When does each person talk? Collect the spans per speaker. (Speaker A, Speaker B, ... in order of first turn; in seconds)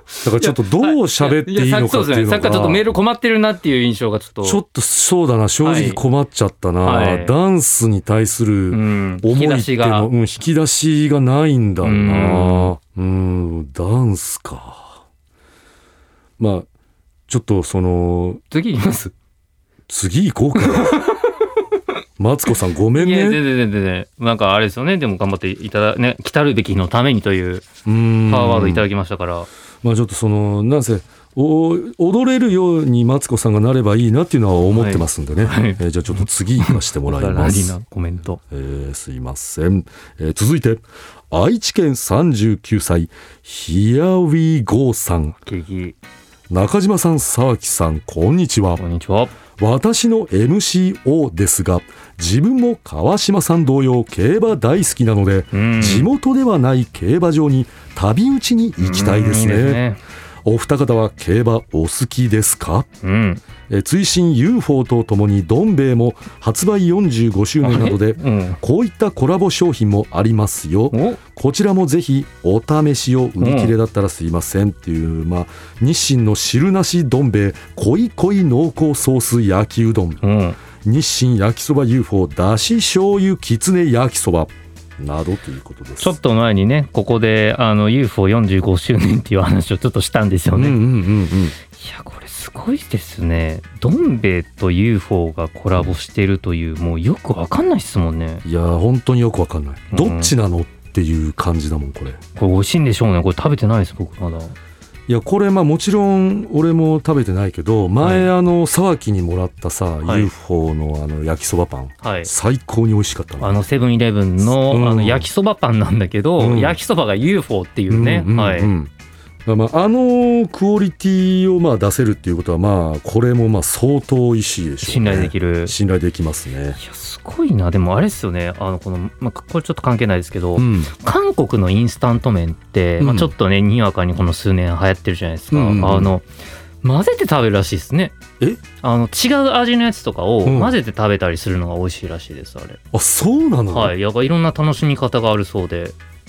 Speaker A: 0.2-4.6, 5.6-6.0, 6.8-7.3, 8.7-10.1, 11.8-12.7, 18.5-19.1, 20.6-21.3, 22.9-27.7, 28.2-29.5, 34.7-38.4, 45.5-46.0, 48.8-49.3, 55.5-56.1, 58.8-60.0, 63.0-63.4, 67.6-68.6, 70.9-71.2, 73.4-73.7, 80.2-80.6, 86.0-90.8, 91.7-98.4, 99.9-100.3, 102.3-104.5, 108.0-108.3, 110.0-110.3, 112.0-112.3, 113.4-118.7, 124.8-125.7, 126.8-136.2, 136.8-138.1, 138.8-142.8, 143.7-145.9
Speaker B: 0.2-2.9, 4.4-15.0, 16.4-16.7, 17.3-18.4, 19.9-21.0, 22.2-23.4, 27.8-28.9, 29.8-37.7, 38.5-45.4, 46.5-48.8, 49.6-59.8, 60.4-62.9, 63.7-80.2, 80.8-86.2, 90.5-91.5, 98.4-102.2, 105.1-113.6, 114.4-115.3, 116.4-116.8, 117.9-118.9, 119.5-126.8, 130.6-130.9, 133.0-133.3, 135.5-136.1, 140.4-140.7, 142.9-143.9